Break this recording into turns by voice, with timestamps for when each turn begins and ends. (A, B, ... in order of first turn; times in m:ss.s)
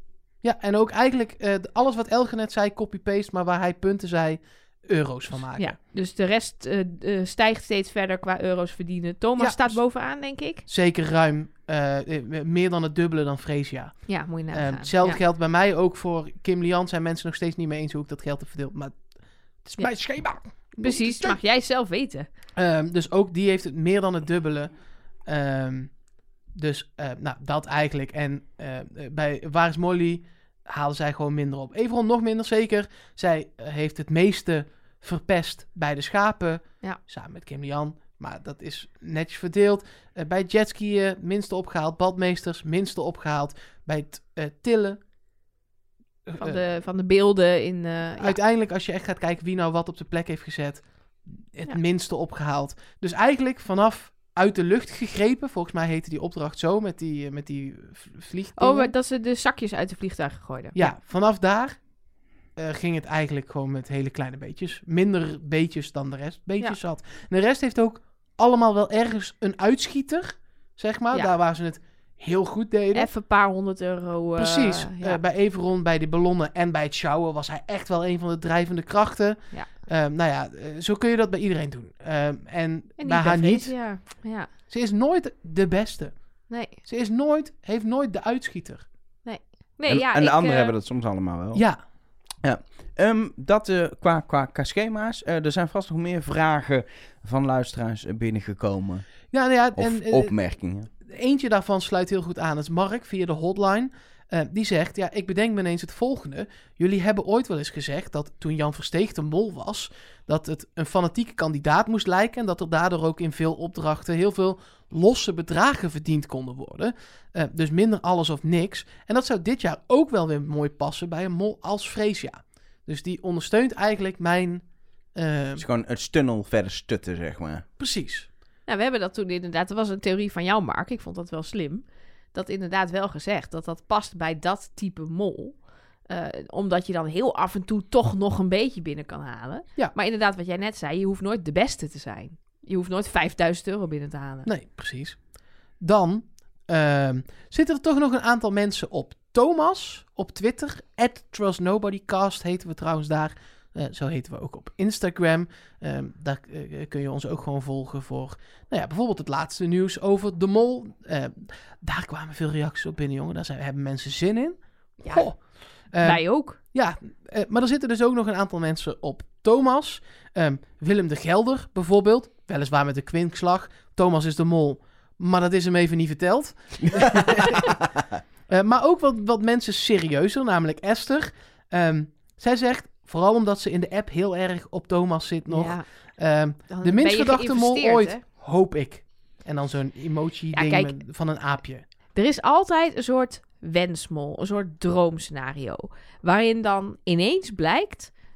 0:00.4-0:05.8 A
0:05.6-0:10.6 B
0:09.4-0:09.8 A
0:10.7-0:21.4 A
0:14.1-0:15.2 B
0:20.8-0:22.3 B
0:22.6-0:24.7 A
0:25.3-0:26.0 A
0:26.5-0:45.0 A
0:46.3-0:46.6 A
0:46.4-0:48.4 B
0:48.2-0:58.9 A
0:58.6-1:00.9 B
1:00.8-1:01.8 A
1:02.6-1:13.1 A
1:12.9-1:15.2 B
1:14.4-1:23.8 A
1:23.0-1:24.5 B
1:24.7-1:28.9 A
1:26.5-1:26.8 B
1:29.2-1:30.7 B
1:29.9-1:31.6 C
1:31.5-1:31.8 A
1:32.4-1:39.1 C
1:39.3-1:40.4 A
1:39.8-1:40.9 C
1:41.0-2:05.6 A
2:05.6-2:07.6 C
2:07.8-2:08.3 A
2:08.7-2:24.5 B
2:24.5-2:25.3 A
2:25.8-2:45.4 A
2:45.0-2:45.3 B
2:45.9-2:57.7 A
2:46.0-2:46.6 B
2:56.9-2:57.6 C
2:58.5-3:11.8 A
3:05.5-3:05.8 B
3:06.7-3:08.2 B
3:10.5-3:11.0 B
3:12.2-3:18.1 B